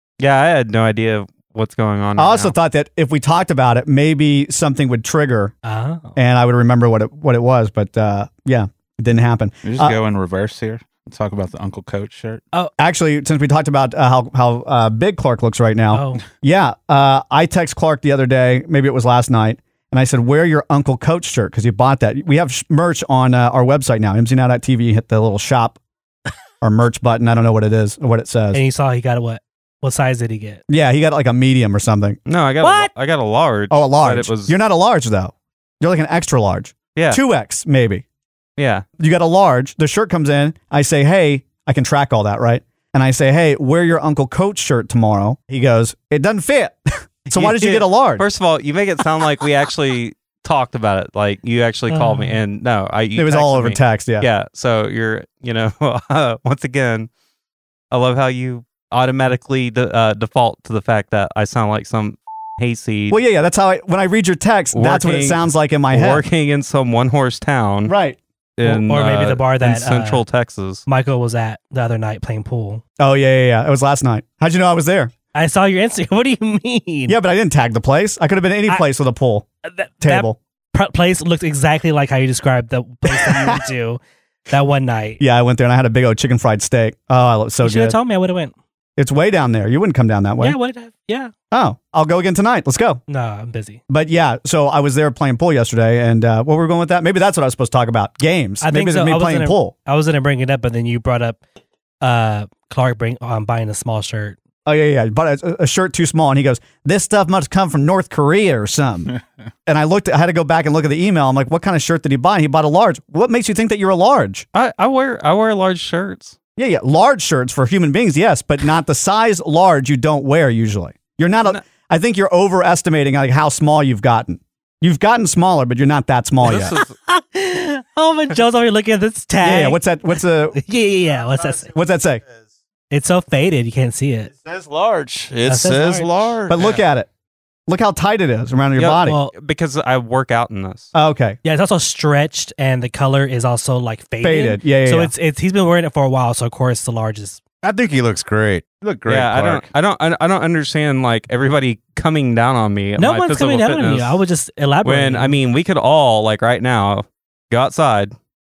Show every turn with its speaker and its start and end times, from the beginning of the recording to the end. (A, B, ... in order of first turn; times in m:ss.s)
0:00.2-0:02.5 A
0:02.2-0:05.5 B
0:05.6-0:06.2 C
0:06.2-0:10.0 B
0:09.6-0:12.4 D
0:12.8-0:25.8 B
0:15.9-0:16.2 C
0:26.6-0:28.6 B
0:28.5-0:30.6 C
0:30.7-0:32.2 B
0:32.3-0:34.6 A
0:32.6-0:32.9 C
0:33.7-0:38.0 B
0:37.0-0:37.2 A
0:38.6-0:38.9 A
0:39.0-0:48.2 B
0:47.4-0:57.1 A
0:51.9-0:52.4 C
0:53.2-0:54.3 B
0:57.9-1:03.2 A
1:03.1-1:06.2 B
1:04.7-1:05.4 A
1:05.9-1:07.9 A
1:07.9-1:08.2 B
1:08.6-1:10.8 A
1:08.6-1:10.2 C
1:10.9-1:12.8 C
1:13.0-1:15.1 B
1:15.3-1:17.2 C
1:17.1-1:19.5 B
1:19.6-1:25.2 C
1:20.0-1:20.4 B
1:23.1-1:23.6 B
1:25.2-1:28.0 B
1:27.6-1:28.5 C
1:29.0-1:30.6 B
1:30.4-1:31.3 C
1:31.5-1:33.0 B
1:33.1-1:33.8 C
1:33.9-1:39.7 B
1:38.6-1:41.4 C
1:42.0-1:44.4 C
1:44.7-1:49.1 B
1:49.7-1:54.5 B
1:54.5-1:56.4 A
1:56.6-2:06.8 B
2:06.4-2:07.0 A
2:07.1-2:09.8 C
2:09.4-2:10.6 B
2:10.5-2:11.7 C
2:11.4-2:11.7 E
2:11.7-2:12.2 B
2:12.2-2:12.5 E
2:12.9-2:14.3 C
2:14.3-2:16.8 E
2:15.5-2:16.3 C
2:16.5-2:17.1 B
2:17.7-2:19.2 B
2:18.8-2:20.9 A
2:19.0-2:19.3 C
2:20.9-2:21.4 B
2:21.4-2:27.4 C
2:24.2-2:25.1 B
2:27.6-2:29.7 E
2:29.1-2:34.2 A
2:33.0-2:35.4 C
2:34.8-2:38.2 A